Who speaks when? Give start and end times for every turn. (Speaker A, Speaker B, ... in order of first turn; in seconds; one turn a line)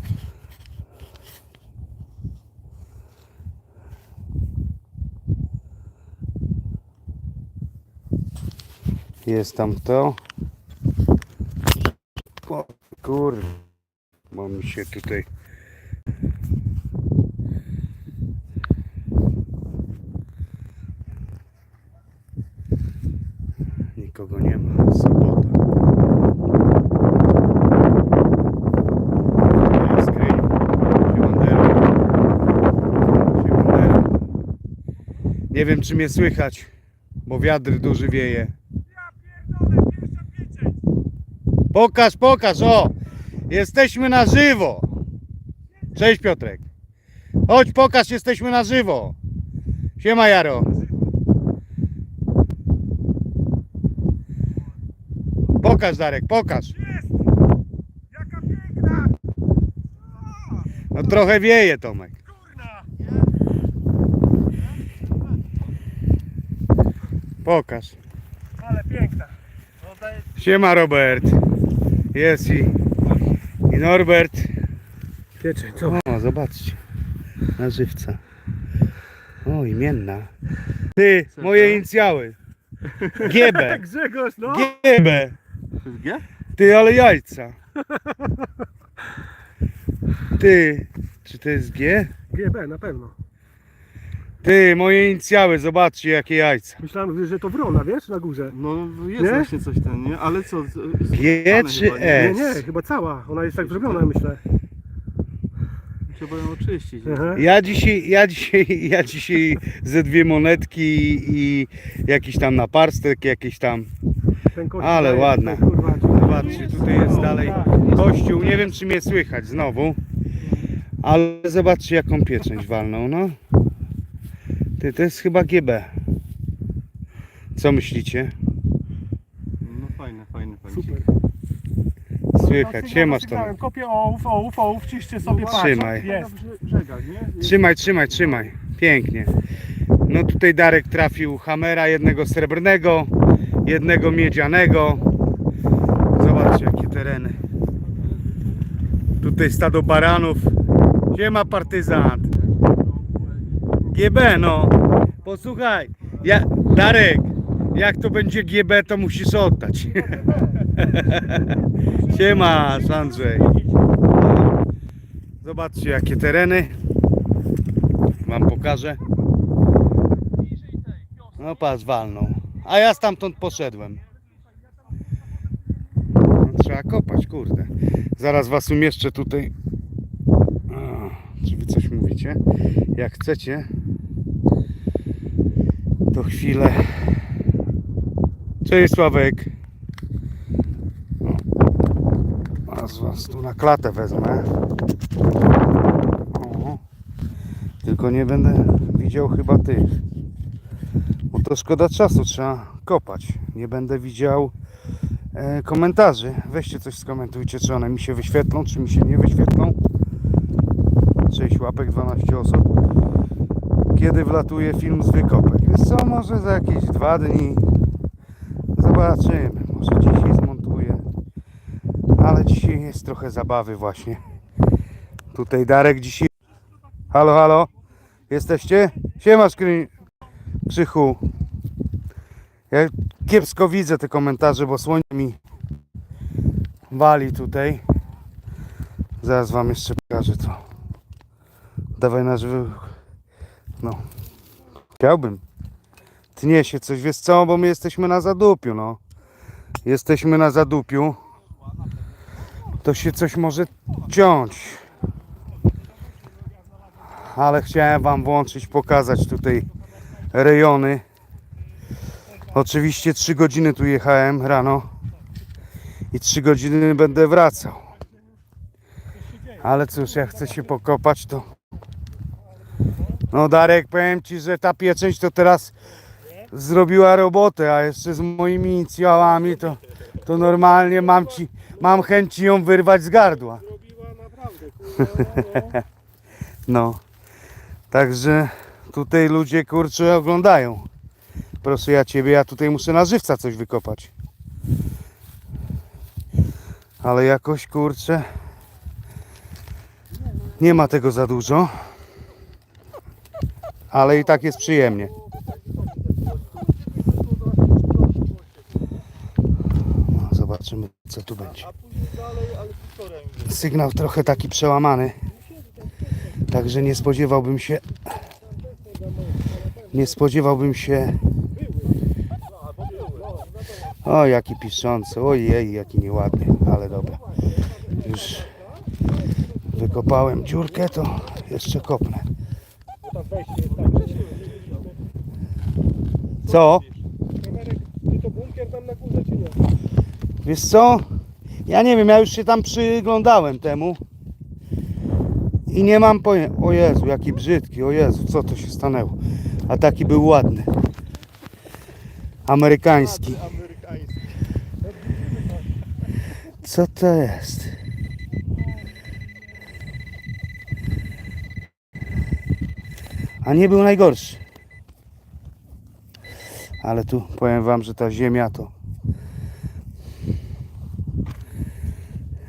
Speaker A: 9.2-10.2
Speaker A: 12.4-13.6
Speaker A: 14.3-15.3
Speaker A: 23.9-25.6
Speaker A: 29.7-31.9
Speaker A: 33.2-34.1
Speaker A: 35.5-36.7
Speaker A: 37.2-38.5
Speaker A: 41.7-42.9
Speaker A: 43.5-44.9
Speaker A: 45.9-46.6
Speaker A: 47.5-49.1
Speaker A: 50.0-50.8
Speaker A: 55.6-56.8
Speaker B: 58.8-59.1
Speaker A: 60.9-62.1
Speaker A: 67.4-68.0
Speaker B: 68.6-69.3
Speaker A: 70.3-71.4
Speaker A: 72.1-72.8
Speaker A: 73.7-74.5
Speaker B: 75.4-76.0
Speaker A: 75.8-76.8
Speaker A: 77.6-78.2
Speaker A: 79.4-80.3
Speaker A: 81.0-82.4
Speaker C: 81.4-81.8
Speaker C: 82.9-83.3
Speaker A: 83.2-83.8
Speaker B: 83.3-84.7
Speaker A: 84.4-85.4
Speaker C: 85.8-86.2
Speaker A: 86.5-87.5
Speaker A: 90.3-92.1
Speaker B: 92.3-93.1
Speaker A: 94.4-96.8
Speaker B: 96.8-98.5
Speaker C: 98.5-102.6
Speaker B: 99.2-99.5
Speaker A: 101.1-102.6
Speaker B: 102.1-104.4
Speaker C: 103.5-104.1
Speaker C: 106.1-107.6
Speaker B: 107.1-107.4
Speaker A: 107.3-113.9
Speaker B: 114.5-117.9
Speaker A: 114.8-120.0
Speaker C: 116.3-117.8
Speaker A: 121.0-123.4
Speaker A: 124.8-125.9
Speaker A: 127.5-128.3
Speaker C: 129.6-131.1
Speaker B: 130.7-131.0
Speaker A: 132.3-133.5
Speaker B: 132.4-136.3
Speaker C: 135.2-138.5
Speaker A: 135.5-136.1
Speaker A: 137.4-139.3
Speaker A: 140.1-143.1
Speaker A: 143.6-145.1
Speaker A: 146.2-147.4
Speaker A: 149.2-150.5
Speaker A: 151.1-152.3
Speaker A: 153.8-163.5
Speaker B: 160.1-160.5
Speaker B: 162.5-163.2
Speaker A: 164.2-164.5
Speaker A: 165.4-166.8
Speaker A: 168.2-169.0
Speaker A: 171.4-174.0
Speaker A: 176.4-179.5
Speaker A: 180.7-182.4
Speaker A: 182.9-183.7
Speaker A: 186.1-187.2
Speaker A: 188.6-189.5
Speaker A: 192.7-194.5
Speaker A: 196.3-196.8
Speaker A: 197.8-199.9
Speaker A: 201.3-204.5
Speaker A: 205.3-209.8
Speaker A: 211.3-212.7
Speaker A: 213.9-217.6
Speaker A: 218.7-221.0
Speaker A: 222.2-224.2
Speaker A: 225.3-226.3
Speaker A: 227.1-227.7
Speaker A: 228.3-229.9
Speaker A: 230.7-231.2
Speaker A: 232.7-235.4
Speaker A: 236.9-237.8
Speaker A: 239.2-240.6
Speaker A: 242.0-242.9
Speaker A: 245.0-245.4
Speaker A: 246.3-249.0
Speaker A: 249.8-251.2
Speaker A: 252.8-254.8
Speaker A: 257.2-259.7
Speaker A: 260.3-261.0
Speaker A: 262.5-264.9
Speaker A: 266.1-267.8
Speaker A: 269.5-271.5
Speaker A: 273.3-275.7
Speaker A: 276.5-283.6
Speaker B: 283.9-285.8
Speaker A: 285.0-285.7
Speaker A: 286.7-287.0
Speaker A: 287.9-290.9
Speaker A: 291.6-294.1
Speaker A: 297.0-298.3
Speaker A: 300.6-301.7
Speaker A: 303.9-305.1
Speaker A: 310.1-311.7
Speaker C: 312.0-313.3
Speaker A: 313.4-315.1
Speaker A: 316.5-317.8
Speaker A: 319.9-321.2
Speaker A: 323.9-327.2
Speaker A: 327.9-328.5
Speaker A: 329.7-332.3
Speaker B: 333.1-334.5
Speaker C: 333.9-334.5
Speaker A: 336.4-336.8
Speaker B: 337.4-339.6
Speaker A: 340.4-341.1
Speaker A: 341.6-344.0
Speaker A: 345.7-350.7
Speaker A: 352.5-353.4
Speaker C: 353.2-354.1
Speaker A: 356.6-357.8
Speaker A: 363.4-364.4
Speaker A: 366.8-368.7